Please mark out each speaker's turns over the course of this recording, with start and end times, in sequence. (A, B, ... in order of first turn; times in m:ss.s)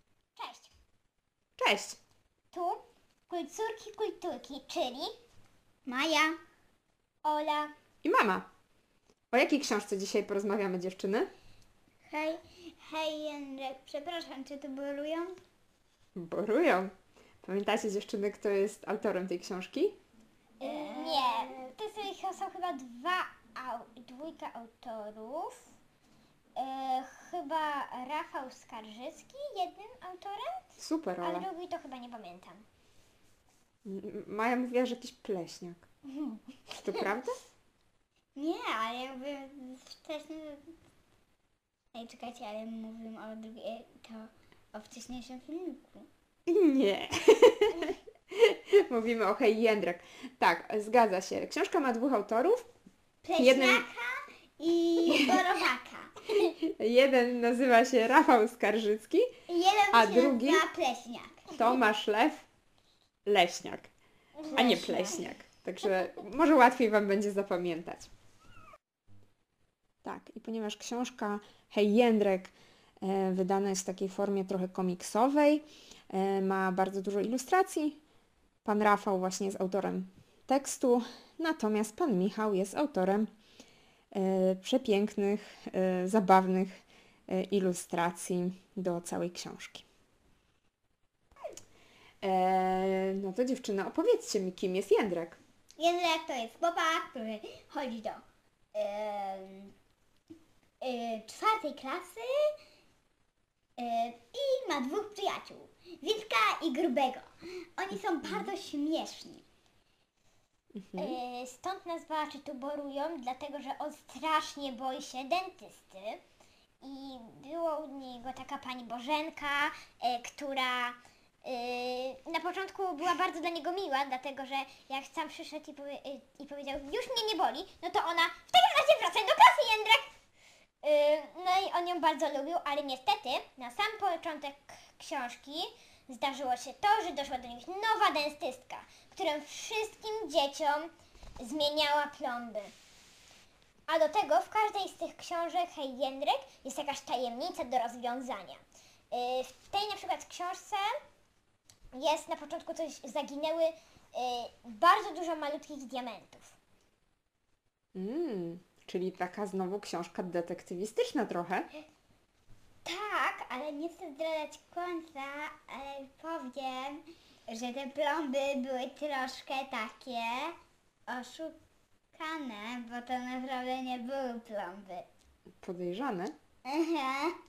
0:00.4-0:00.7 A
0:01.6-0:02.0 B
0:02.5-0:05.1 A
0:05.8-0:06.4 C
0:07.2-0:07.7 A
0:08.0-0:08.5 B
0:09.3-0:11.3 B
0:12.1-0:15.3 C
0:16.2-0:16.9 B
0:17.4-0:20.0 B
0:20.6-0:25.7 A
0:20.6-0:21.5 C
0:26.6-0:30.6 A
0:30.8-0:31.4 B
0:31.2-0:32.6 A
0:33.8-0:35.8 B
0:36.1-0:37.1 A
0:36.8-0:37.4 B
0:38.4-0:40.7 C
0:41.9-0:46.1 C
0:46.5-0:52.7 B
0:53.2-0:56.1 C
0:53.4-0:53.8 B
0:55.1-0:55.4 B
0:56.6-0:59.3 B
0:59.5-1:01.5 C
0:59.9-1:00.6 B
1:01.5-1:02.4 B
1:03.2-1:03.9 B
1:04.4-1:04.9 A
1:04.4-1:05.3 C
1:04.5-1:08.1 B
1:10.0-1:18.0 B
1:18.6-1:23.3 B
1:24.1-1:29.8 B
1:32.2-1:35.4 B
1:35.8-1:38.2 C
1:38.7-1:39.7 C
1:40.8-1:42.3 C
1:43.8-1:49.4 C
1:48.2-1:48.5 B
1:50.7-1:51.2 B
1:51.0-1:56.2 A
1:56.8-2:10.1 A
2:10.8-2:22.7 A
2:23.9-2:30.9 A
2:31.9-2:36.5 A
2:37.9-2:41.7 B
2:42.8-2:50.5 C
2:51.1-2:51.5 C
2:52.1-2:55.0 C
2:55.6-2:56.3 B
2:56.6-2:57.3 C